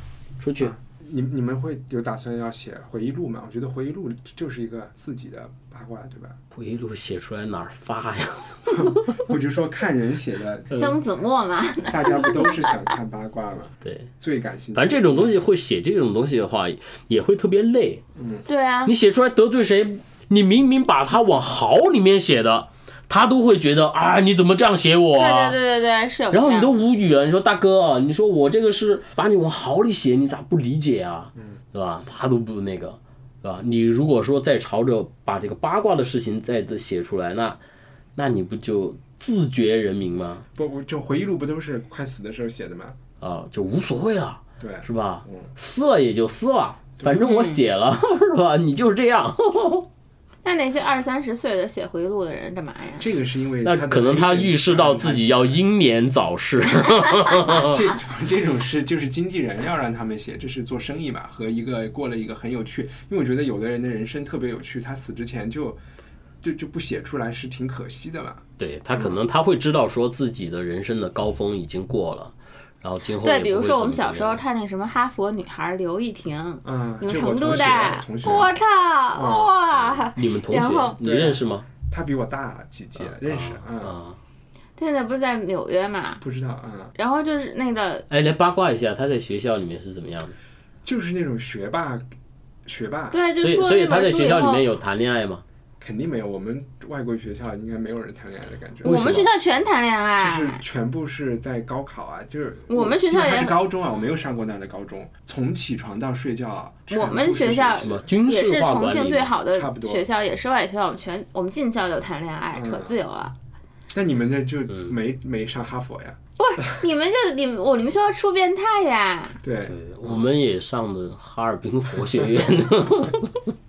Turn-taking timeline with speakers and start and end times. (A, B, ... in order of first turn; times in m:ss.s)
0:00.4-0:00.7 A
0:00.6-0:06.4 B
0:06.5-0:09.2 A
0:08.7-0:10.7 B
0:10.7-0:11.0 A
0:10.7-0:12.9 C
0:11.9-0:15.4 B
0:13.8-0:14.1 A
0:14.7-0:18.0 A
0:18.2-0:18.4 B
0:18.5-0:18.9 C
0:18.8-0:25.6 A
0:25.2-0:26.7 C
0:26.3-0:37.6 A
0:38.2-0:40.4 A
0:40.5-0:43.0 B
0:43.2-0:49.9 A
0:44.6-0:45.5 B
0:47.2-0:47.6 C
0:50.4-0:53.0 C
0:53.0-0:55.6 B
0:53.6-0:57.9 A
0:57.4-1:05.8 B
1:06.4-1:09.2 B
1:08.6-1:14.4 A
1:13.2-1:21.0 C
1:16.6-1:18.5 B
1:19.1-1:19.6 B
1:20.1-1:21.7 A
1:21.0-1:24.0 B
1:23.0-1:24.2 A
1:24.8-1:26.2 C
1:26.2-1:26.9 B
1:27.0-1:28.0 C
1:28.1-1:30.4 A
1:30.8-1:32.0 B
1:32.6-1:33.2 B
1:33.1-1:34.6 C
1:33.4-1:35.4 A
1:35.8-1:39.2 B
1:38.8-1:39.3 A
1:38.8-1:40.6 C
1:40.2-1:48.1 B
1:42.7-1:43.6 C
1:46.9-1:53.3 C
1:47.8-1:49.3 A
1:49.5-1:50.0 B
1:52.5-1:53.0 B
1:53.9-1:56.2 B
1:56.4-1:59.4 C
1:59.4-2:00.3 B
1:59.6-2:03.4 A